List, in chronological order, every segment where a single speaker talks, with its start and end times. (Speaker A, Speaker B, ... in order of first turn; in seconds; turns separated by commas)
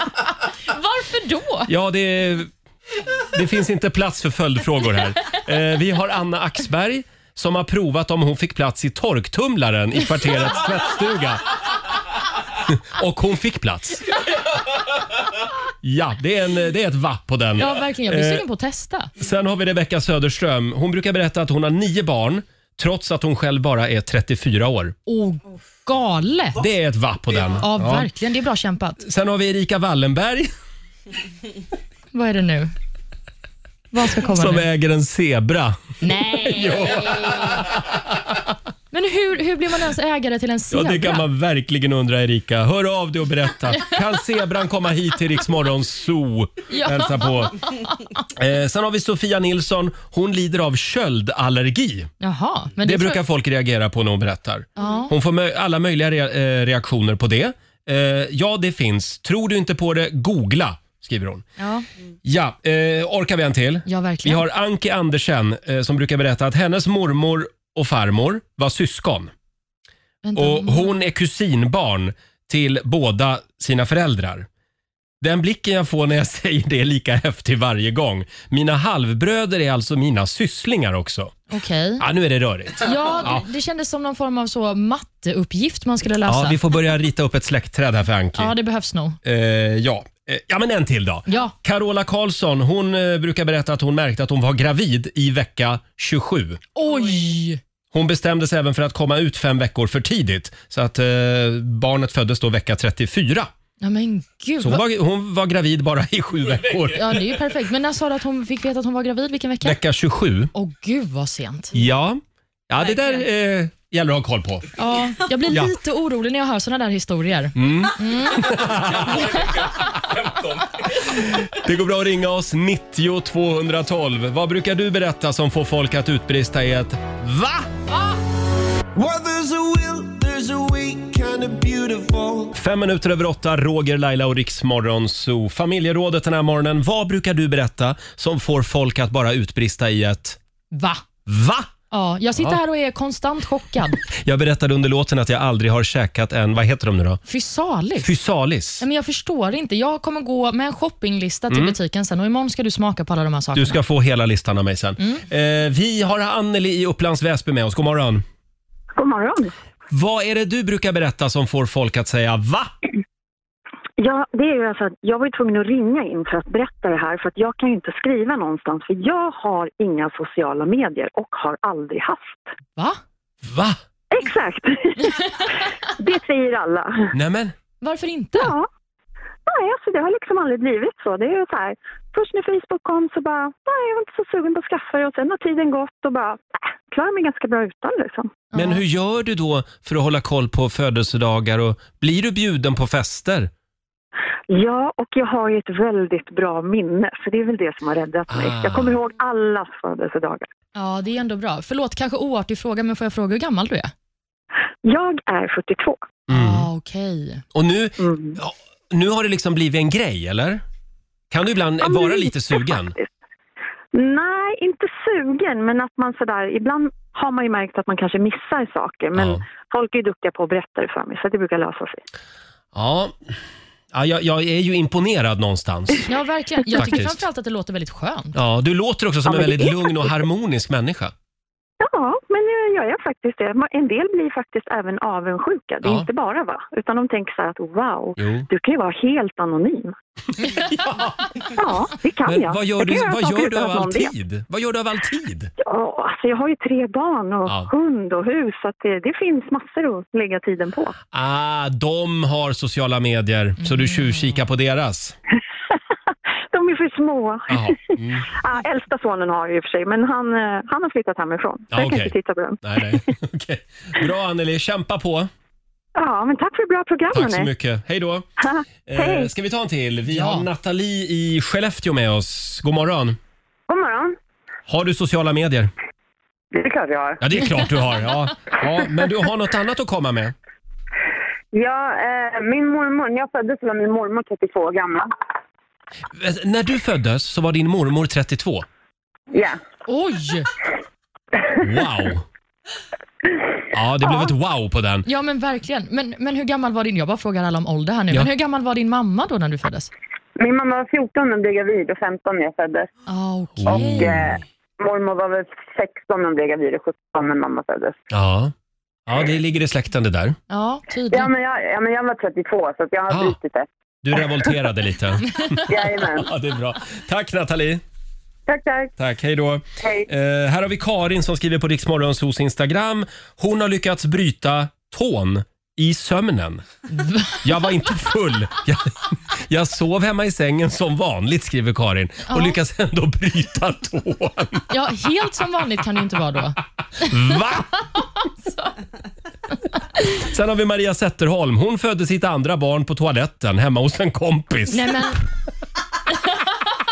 Speaker A: 0.7-1.7, Speaker B: 1.7-2.5, Speaker B: 3.3-11.4, Speaker B: 12.7-14.1, Speaker B: 15.8-18.4, Speaker A: 17.6-19.1, Speaker B: 19.2-25.0, Speaker A: 25.1-26.6, Speaker B: 26.6-28.1, Speaker A: 27.6-29.0, Speaker B: 29.0-30.5, Speaker A: 32.1-32.7, Speaker A: 33.9-34.6, Speaker B: 34.3-38.4, Speaker A: 36.0-36.9, Speaker A: 38.9-41.2, Speaker B: 40.7-47.6, Speaker A: 46.7-48.0, Speaker B: 48.3-52.1, Speaker A: 52.2-53.2, Speaker B: 52.8-61.5, Speaker A: 54.8-55.1, Speaker A: 61.6-61.9, Speaker B: 62.2-69.3, Speaker A: 63.9-64.4, Speaker A: 70.2-71.0, Speaker B: 70.4-74.5, Speaker B: 75.2-81.4, Speaker A: 81.5-82.0, Speaker B: 82.0-83.4, Speaker A: 82.8-86.6, Speaker B: 86.3-88.5, Speaker A: 88.4-89.2, Speaker B: 89.2-96.6, Speaker A: 91.3-91.5, Speaker A: 96.8-97.6, Speaker B: 97.9-103.5, Speaker A: 103.8-104.8, Speaker B: 104.6-107.2, Speaker A: 106.9-109.8, Speaker B: 109.6-110.5, Speaker A: 110.5-111.8, Speaker B: 111.7-114.7, Speaker A: 114.8-119.5, Speaker B: 117.6-120.3, Speaker B: 121.0-127.7, Speaker C: 129.0-132.4, Speaker B: 132.5-140.4, Speaker A: 140.7-141.0, Speaker B: 141.3-141.7, Speaker A: 141.9-144.0, Speaker B: 144.0-147.2, Speaker A: 147.3-148.1, Speaker B: 148.0-148.8, Speaker A: 148.8-153.8, Speaker B: 153.6-158.2, Speaker D: 159.0-159.5, Speaker B: 159.9-162.7, Speaker D: 164.0-172.5, Speaker B: 173.4-173.8, Speaker D: 174.1-177.1, Speaker B: 177.1-177.5, Speaker A: 177.8-178.5, Speaker D: 178.4-178.7, Speaker D: 179.5-188.5, Speaker A: 188.5-188.8, Speaker B: 188.5-193.5, Speaker D: 194.5-200.5, Speaker B: 198.3-199.0, Speaker A: 200.8-203.9, Speaker D: 204.8-206.1, Speaker B: 206.3-206.7, Speaker A: 206.3-207.4, Speaker B: 207.5-210.6, Speaker D: 208.0-208.4, Speaker B: 211.3-212.9, Speaker D: 211.8-213.1, Speaker D: 213.9-222.0, Speaker B: 219.1-219.4, Speaker B: 222.7-223.2, Speaker B: 223.9-226.1, Speaker A: 226.1-228.4, Speaker B: 226.7-227.2, Speaker B: 228.3-231.1, Speaker D: 229.3-230.1, Speaker D: 231.8-239.9, Speaker B: 235.8-236.1, Speaker B: 238.2-238.5, Speaker B: 240.5-241.2, Speaker D: 241.6-244.1, Speaker B: 242.3-245.5, Speaker D: 245.6-251.0, Speaker B: 247.5-247.7, Speaker B: 251.1-255.2, Speaker A: 253.6-254.4, Speaker D: 256.5-257.8, Speaker B: 257.5-258.3, Speaker D: 258.4-263.1, Speaker B: 261.7-265.3, Speaker D: 266.0-267.5, Speaker B: 267.1-268.3, Speaker B: 268.9-273.2, Speaker D: 269.0-269.3, Speaker A: 270.1-270.5, Speaker E: 273.7-274.1, Speaker B: 274.7-275.7, Speaker E: 276.5-277.3, Speaker B: 277.2-280.3, Speaker E: 281.5-285.1, Speaker B: 286.1-288.7, Speaker E: 289.3-289.6, Speaker A: 289.9-290.5, Speaker B: 291.6-292.2, Speaker B: 293.7-295.1, Speaker A: 295.1-299.9, Speaker E: 300.4-302.9, Speaker A: 303.1-304.2, Speaker B: 303.6-304.4, Speaker E: 303.7-308.0, Speaker B: 308.1-308.5, Speaker B: 309.1-310.4, Speaker A: 310.5-311.3, Speaker E: 311.1-313.7, Speaker B: 313.1-313.4, Speaker B: 314.0-317.8, Speaker E: 315.7-316.3, Speaker E: 318.5-318.9, Speaker B: 319.0-326.6, Speaker E: 319.8-320.1, Speaker A: 326.9-327.4, Speaker B: 327.4-334.7, Speaker A: 332.3-332.6, Speaker A: 334.7-337.4, Speaker B: 337.1-337.7, Speaker A: 338.4-338.7, Speaker B: 340.1-345.1, Speaker A: 344.7-345.2